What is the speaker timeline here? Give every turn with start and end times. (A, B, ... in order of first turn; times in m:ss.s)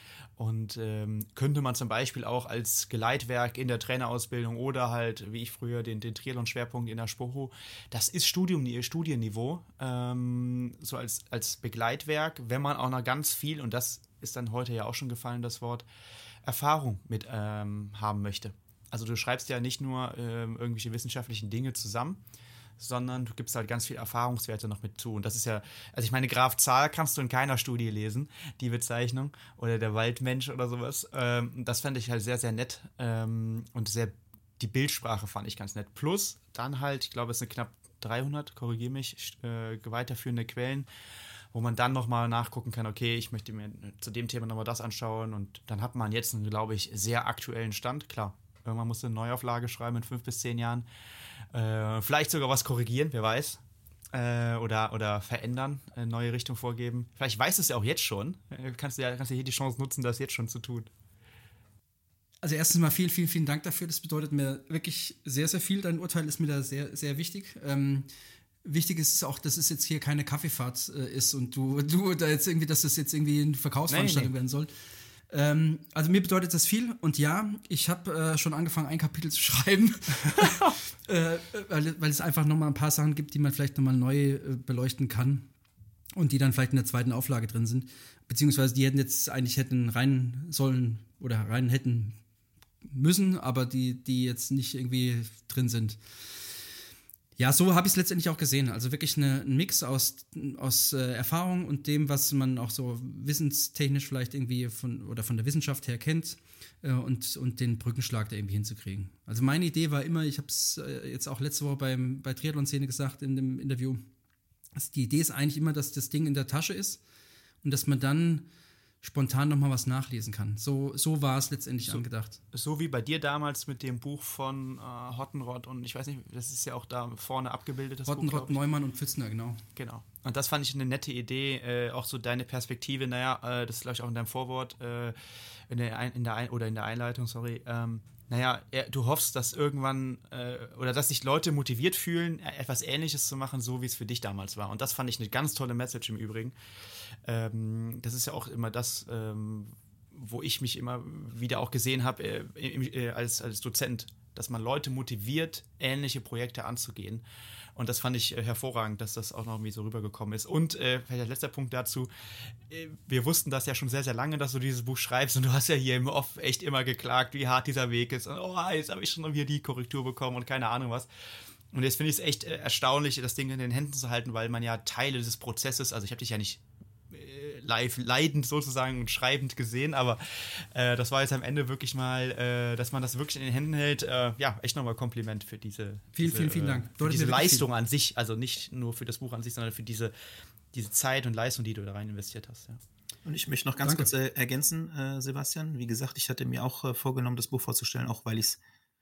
0:00.4-0:15.9 A
0:16.4-0:22.2 A
0:22.8-0:40.9 A
0:41.5-0:50.9 A
0:51.5-0:53.6 A
0:54.1-1:00.9 A
1:02.4-1:08.1 B
1:08.6-1:14.7 B
1:13.9-1:14.3 A
1:15.3-1:25.5 B
1:26.2-1:32.2 B
1:32.8-1:36.0 B
1:37.4-1:54.1 B
1:54.8-1:57.0 B
1:57.6-1:58.5 B
1:59.0-2:02.4 B
2:01.8-2:08.6 A
2:08.0-2:09.6 B
2:09.8-2:15.1 A
2:15.7-2:26.5 A
2:27.2-2:37.2 A
2:37.7-2:51.1 A
2:51.7-3:10.1 A
3:06.1-3:07.7 B
3:10.7-3:12.8 A
3:13.2-3:18.6 C
3:13.8-3:14.1 B